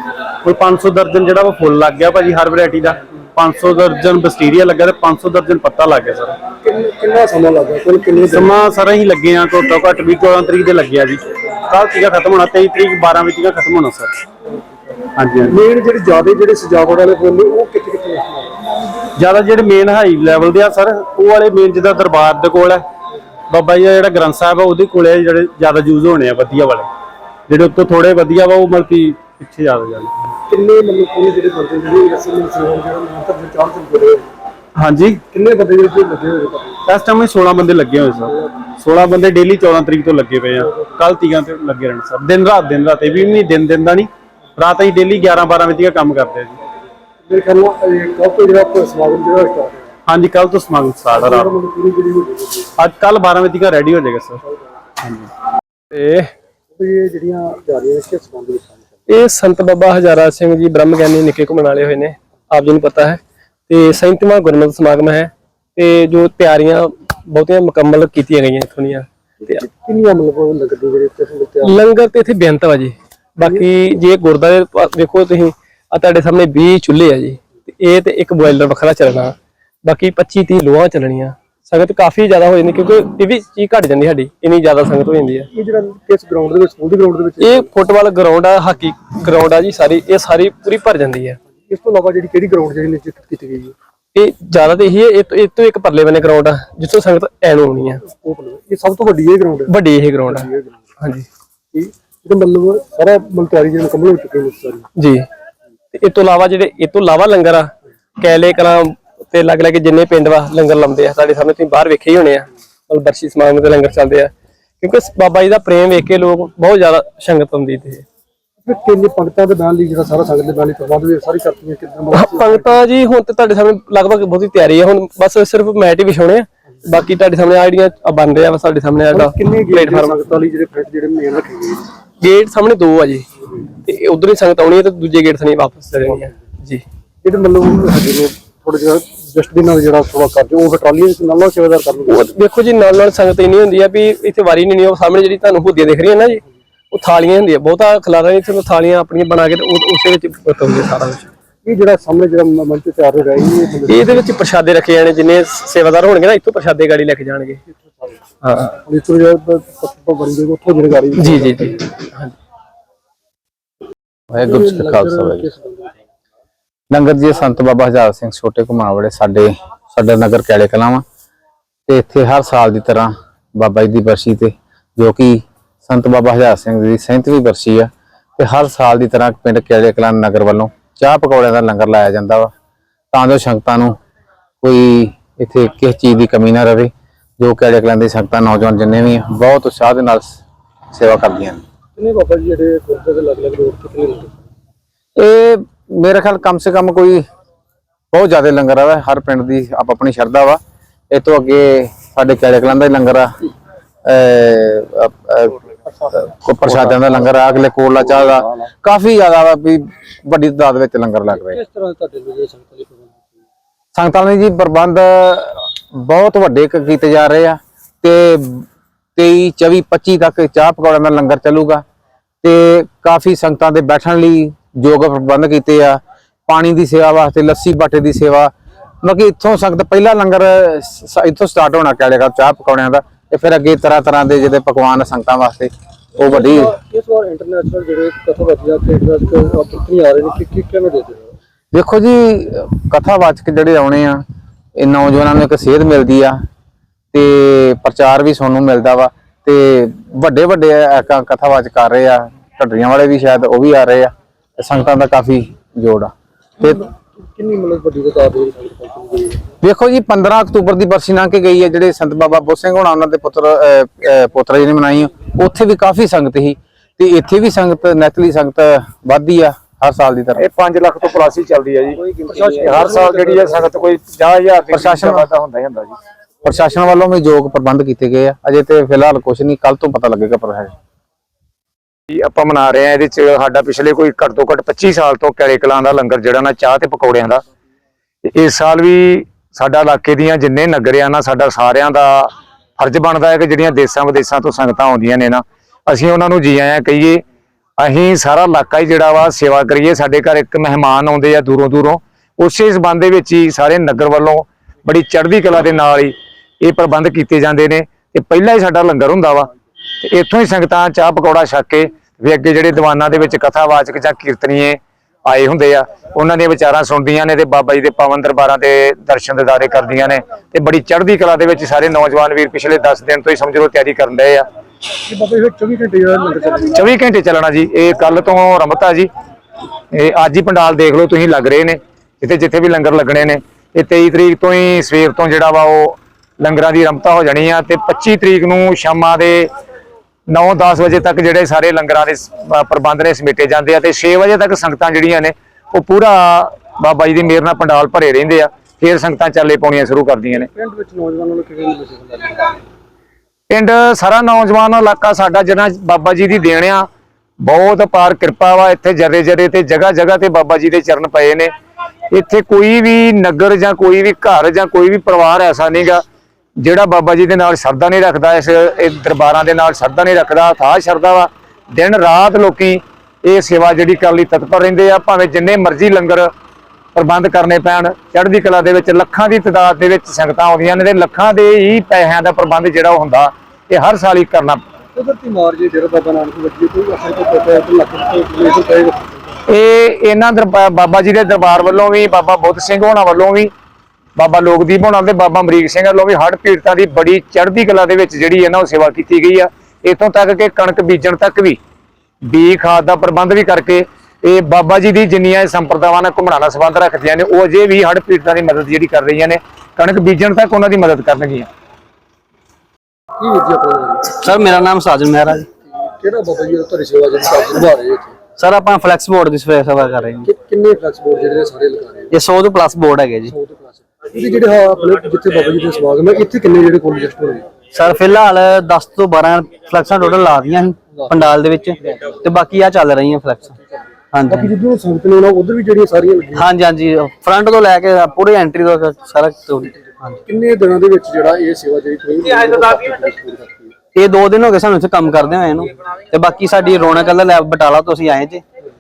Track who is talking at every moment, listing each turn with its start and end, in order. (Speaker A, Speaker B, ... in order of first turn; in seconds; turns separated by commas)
Speaker A: 0.4-6.4, Speaker B: 6.6-8.5, Speaker A: 8.3-14.1, Speaker A: 15.2-15.6, Speaker B: 15.5-18.6, Speaker A: 19.1-22.9, Speaker A: 23.5-26.9, Speaker A: 27.5-30.1, Speaker B: 30.5-34.2, Speaker A: 34.8-35.2, Speaker B: 35.3-36.8, Speaker A: 36.9-46.6, Speaker B: 47.3-49.9, Speaker A: 50.1-51.6, Speaker B: 51.1-52.7, Speaker A: 52.8-54.4, Speaker C: 55.9-56.3, Speaker B: 56.8-58.8, Speaker C: 59.1-69.5, Speaker B: 69.4-71.8, Speaker C: 71.6-85.5, Speaker B: 85.5-87.7, Speaker C: 87.4-91.4, Speaker B: 91.6-93.8, Speaker C: 94.2-98.0, Speaker B: 98.0-99.7, Speaker C: 99.7-100.5, Speaker B: 100.2-100.9, Speaker C: 101.0-101.3, Speaker B: 101.7-104.9, Speaker C: 105.0-105.3, Speaker C: 105.9-118.0, Speaker B: 118.6-122.8, Speaker C: 122.1-130.2, Speaker B: 129.1-131.9, Speaker C: 132.2-133.3, Speaker C: 133.8-136.8, Speaker B: 137.2-142.3, Speaker C: 142.1-151.3, Speaker B: 151.6-154.3, Speaker C: 153.9-157.6, Speaker B: 157.8-158.1, Speaker C: 158.4-158.7, Speaker B: 158.7-161.8, Speaker C: 161.2-162.3, Speaker D: 164.3-165.5, Speaker B: 164.4-165.9, Speaker D: 166.9-171.0, Speaker D: 171.9-182.5, Speaker D: 183.1-184.0, Speaker D: 184.6-190.4, Speaker D: 190.9-191.6, Speaker B: 192.0-194.4, Speaker D: 195.2-197.2, Speaker D: 198.1-200.6, Speaker D: 201.1-203.4, Speaker D: 204.1-205.6, Speaker B: 205.9-207.1, Speaker D: 206.4-211.6, Speaker B: 211.3-213.2, Speaker D: 213.9-221.8, Speaker D: 222.4-236.7, Speaker B: 236.3-241.3, Speaker D: 241.7-244.2, Speaker D: 244.8-246.4, Speaker D: 247.1-256.1, Speaker B: 256.6-259.4, Speaker D: 259.6-270.4, Speaker E: 270.4-275.9, Speaker B: 272.2-273.9, Speaker D: 274.7-275.3, Speaker D: 276.4-280.7, Speaker E: 282.1-287.4, Speaker E: 288.2-297.2, Speaker E: 297.8-309.5, Speaker E: 310.0-324.4, Speaker B: 325.1-326.8, Speaker E: 326.8-329.1, Speaker E: 329.9-339.5, Speaker E: 340.3-350.5, Speaker B: 350.3-352.6, Speaker E: 353.5-356.9, Speaker E: 357.4-361.5, Speaker E: 362.1-366.0, Speaker E: 366.6-376.3, Speaker E: 376.9-384.6, Speaker B: 384.9-389.2, Speaker E: 389.5-393.5, Speaker E: 394.2-401.6, Speaker E: 402.3-411.5, Speaker B: 413.2-414.1, Speaker F: 414.2-415.5, Speaker B: 415.8-418.1, Speaker F: 418.4-420.3, Speaker B: 420.2-422.2, Speaker F: 422.1-423.3, Speaker B: 423.3-427.5, Speaker F: 427.7-433.5, Speaker F: 434.1-434.5, Speaker B: 434.3-436.5, Speaker F: 436.4-440.2, Speaker B: 440.3-443.7, Speaker F: 443.9-448.4